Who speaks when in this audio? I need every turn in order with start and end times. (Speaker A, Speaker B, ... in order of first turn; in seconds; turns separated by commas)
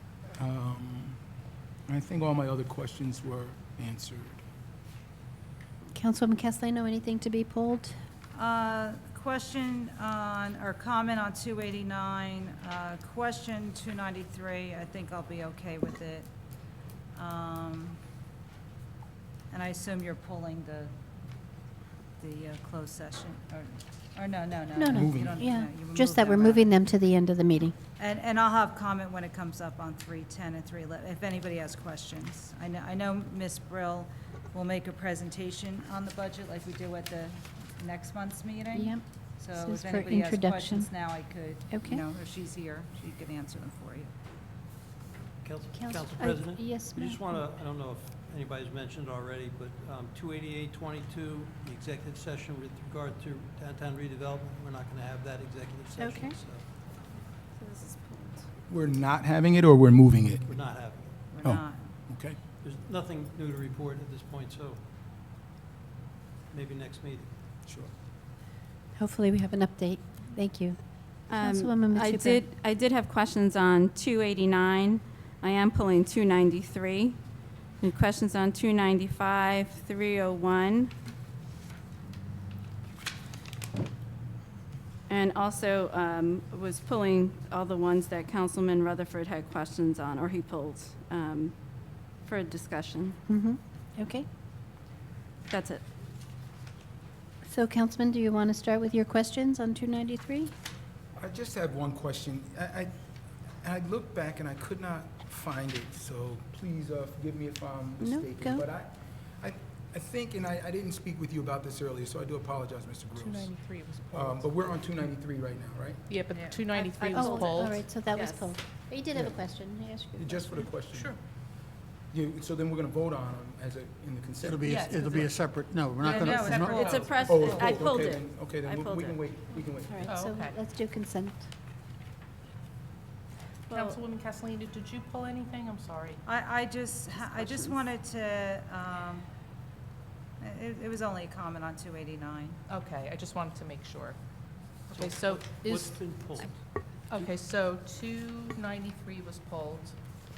Speaker A: 0.3-1.2, Speaker A: 1.9-4.4, Speaker B: 5.9-7.9, Speaker C: 8.3-16.3, Speaker C: 17.1-18.0, Speaker C: 19.5-20.9, Speaker C: 22.2-26.8, Speaker B: 24.7-27.8, Speaker A: 24.9-25.4, Speaker C: 27.9-44.1, Speaker B: 38.7-40.9, Speaker B: 41.7-42.0, Speaker D: 45.4-56.6, Speaker B: 45.7-47.4, Speaker B: 56.0-56.4, Speaker E: 57.5-58.5, Speaker A: 58.7-60.5, Speaker D: 60.5-61.2, Speaker C: 61.3-62.1, Speaker A: 61.4-62.4, Speaker D: 62.6-64.8, Speaker D: 66.5-67.3, Speaker A: 67.6-67.9, Speaker B: 69.0-72.4, Speaker E: 71.3-77.2, Speaker E: 77.8-80.9, Speaker E: 85.1-93.2, Speaker B: 93.3-94.2, Speaker E: 95.5-95.8, Speaker B: 97.5-100.5, Speaker A: 101.2-102.9, Speaker A: 103.6-116.3, Speaker B: 108.0-108.7, Speaker F: 113.1-114.7, Speaker F: 116.1-117.9, Speaker C: 116.3-117.1, Speaker B: 117.1-120.6, Speaker E: 117.1-118.5, Speaker A: 119.1-119.4, Speaker A: 120.1-121.2, Speaker F: 120.9-121.2, Speaker A: 122.1-125.3, Speaker G: 124.4-127.1, Speaker F: 124.6-125.3, Speaker F: 126.0-127.9, Speaker C: 126.1-127.1, Speaker E: 126.7-129.2, Speaker A: 127.2-130.2, Speaker B: 129.7-131.5, Speaker F: 130.0-130.6, Speaker E: 133.7-134.0, Speaker F: 133.7-136.2, Speaker C: 136.2-139.3, Speaker E: 137.2-137.8, Speaker C: 140.4-142.6, Speaker F: 142.7-144.2, Speaker F: 144.9-146.3, Speaker D: 144.9-146.6, Speaker F: 147.1-149.9